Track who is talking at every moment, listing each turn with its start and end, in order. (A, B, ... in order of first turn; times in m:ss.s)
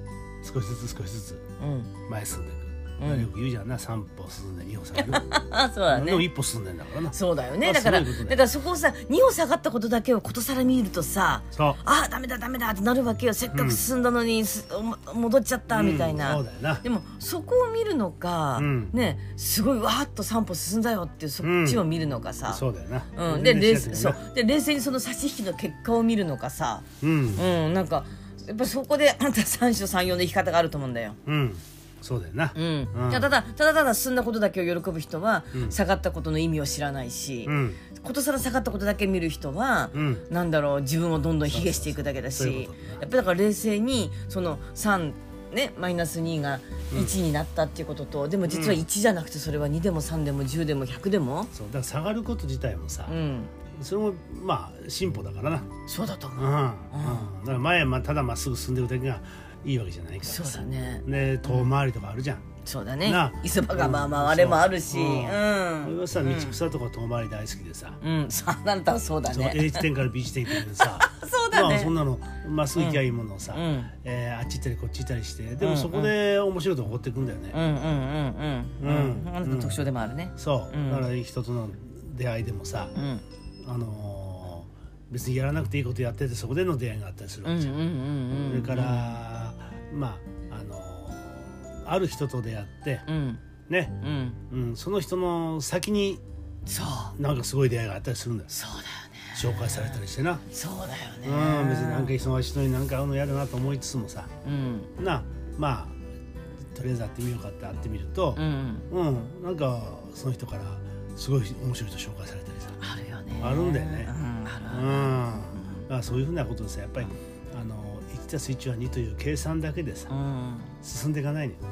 0:00.4-0:01.4 A
0:01.6-0:01.9 B
0:02.1-0:08.4 A
0:03.0-0:03.3 B
0:05.0-0:06.3 B
0:07.1-0:22.6 B
0:11.5-0:11.8 A
0:13.5-0:13.8 A
0:15.7-0:16.8 A
0:18.6-0:18.9 A
0:21.4-0:21.9 A
0:22.4-0:24.2 A
0:23.1-0:31.2 B
0:27.0-0:27.4 A
0:31.2-0:33.3 A
0:32.5-0:51.5 B
0:37.4-0:37.8 A
0:39.9-0:40.2 A
0:41.4-0:43.0 A
0:46.9-0:47.2 A
0:48.4-0:48.8 A
0:51.5-0:53.1 A
0:53.1-0:53.5 B
0:53.7-0:55.7 A
0:55.9-0:57.3 B
0:56.4-1:02.4 A
1:00.2-1:01.7 B
1:02.6-1:06.6 B
1:03.0-1:08.0 A
1:08.0-1:09.9 B
1:09.2-1:17.6 A
1:10.5-1:11.9 B
1:12.8-1:13.0 B
1:13.5-1:13.9 B
1:15.6-1:16.1 B
1:17.5-1:21.1 B
1:18.8-1:22.9 A
1:22.9-1:23.2 B
1:23.6-1:27.8 A
1:27.4-1:29.2 B
1:28.4-1:33.0 A
1:33.1-1:33.4 B
1:33.7-1:34.0 A
1:34.0-1:34.4 B
1:34.5-1:36.2 A
1:36.6-1:37.2 B
1:37.2-1:38.5 A
1:38.5-1:40.0 B
1:39.3-1:40.4 A
1:40.5-1:42.1 B
1:41.2-1:44.3 A
1:44.4-1:44.9 B
1:45.0-1:46.0 A
1:46.7-1:52.8 A
1:48.4-1:48.9 B
1:52.8-1:55.9 B
1:53.4-1:54.1 A
1:54.7-2:00.1 A
2:00.1-2:00.7 B
2:00.8-2:01.6 A